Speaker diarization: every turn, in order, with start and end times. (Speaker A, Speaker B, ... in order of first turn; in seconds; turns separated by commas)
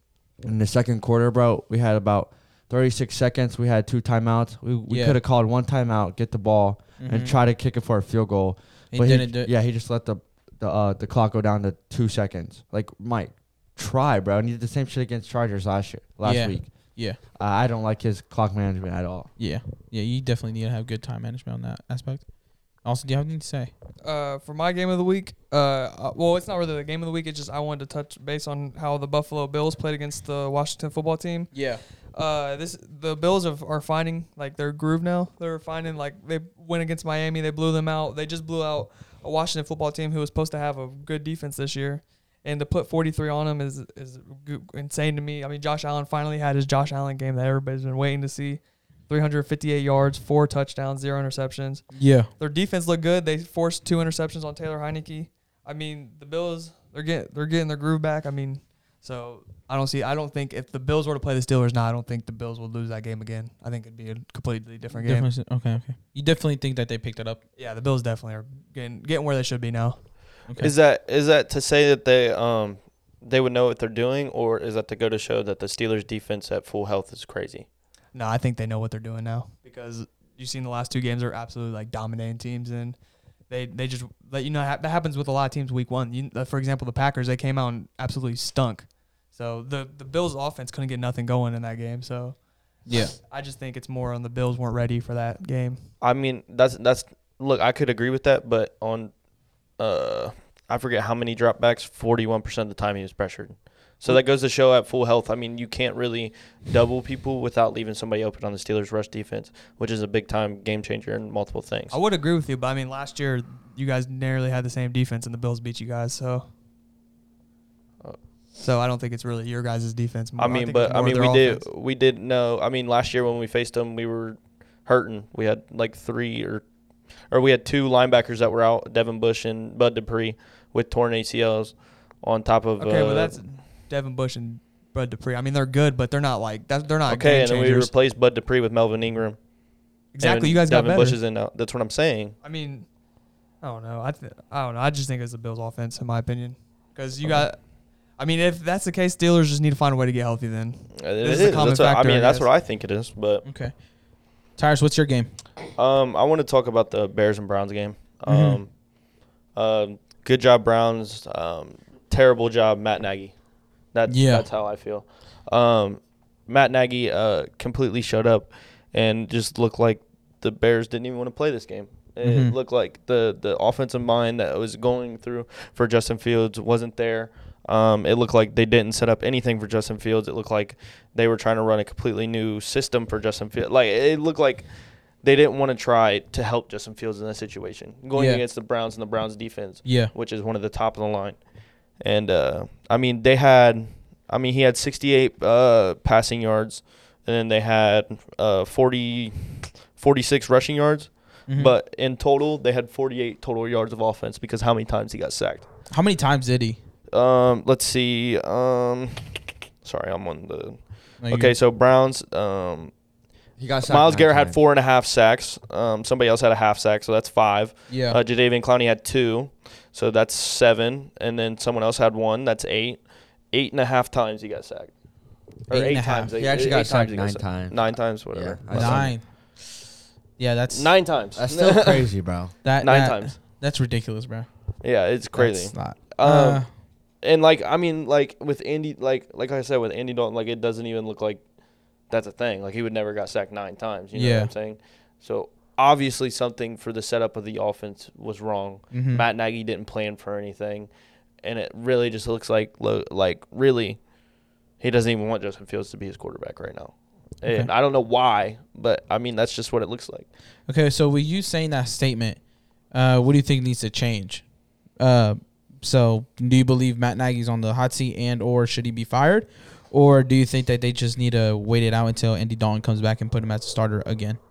Speaker A: 0.4-19.3, Speaker B: 4.9-5.2, Speaker B: 7.0-7.3, Speaker B: 8.9-9.5, Speaker B: 16.2-17.2, Speaker B: 19.4-23.7, Speaker C: 24.0-65.3, Speaker B: 31.5-31.8, Speaker B: 51.9-52.3, Speaker B: 65.0-67.4, Speaker C: 67.6-70.0, Speaker D: 70.5-77.7, Speaker C: 78.1-83.0, Speaker C: 83.5-95.8, Speaker B: 92.9-93.1, Speaker D: 96.0-99.1, Speaker D: 99.8-112.0, Speaker C: 111.9-116.5, Speaker C: 118.6-121.6, Speaker D: 120.4-126.7, Speaker D: 127.3-133.4, Speaker C: 132.8-137.9, Speaker D: 137.1-139.4, Speaker C: 140.1-141.2, Speaker D: 140.2-142.3, Speaker C: 142.4-142.9, Speaker C: 143.6-152.5, Speaker D: 151.0-153.4, Speaker B: 153.4-153.8, Speaker B: 154.6-155.3, Speaker D: 155.8-158.8, Speaker B: 158.3-158.6, Speaker D: 159.5-163.3, Speaker D: 163.9-184.7, Speaker B: 164.1-164.5, Speaker B: 172.2-172.6, Speaker D: 185.2-205.7, Speaker B: 188.2-188.4, Speaker B: 189.8-190.1, Speaker B: 201.5-201.7, Speaker B: 205.9-206.8, Speaker D: 207.1-212.9, Speaker B: 211.2-211.6, Speaker A: 213.6-214.6, Speaker D: 213.8-224.9, Speaker B: 217.9-218.2, Speaker D: 225.7-229.2, Speaker B: 225.7-226.3, Speaker A: 226.4-229.2, Speaker B: 228.7-229.3, Speaker B: 230.4-230.9, Speaker D: 230.7-232.1, Speaker A: 231.3-232.5, Speaker B: 232.6-234.5, Speaker D: 232.8-233.4, Speaker D: 234.8-236.7, Speaker B: 235.3-236.7, Speaker D: 237.2-241.5, Speaker D: 242.1-250.9, Speaker B: 244.2-244.5, Speaker B: 248.9-249.2, Speaker D: 251.4-254.0, Speaker D: 254.8-260.3, Speaker B: 260.7-262.4, Speaker B: 262.9-264.4, Speaker B: 265.0-274.4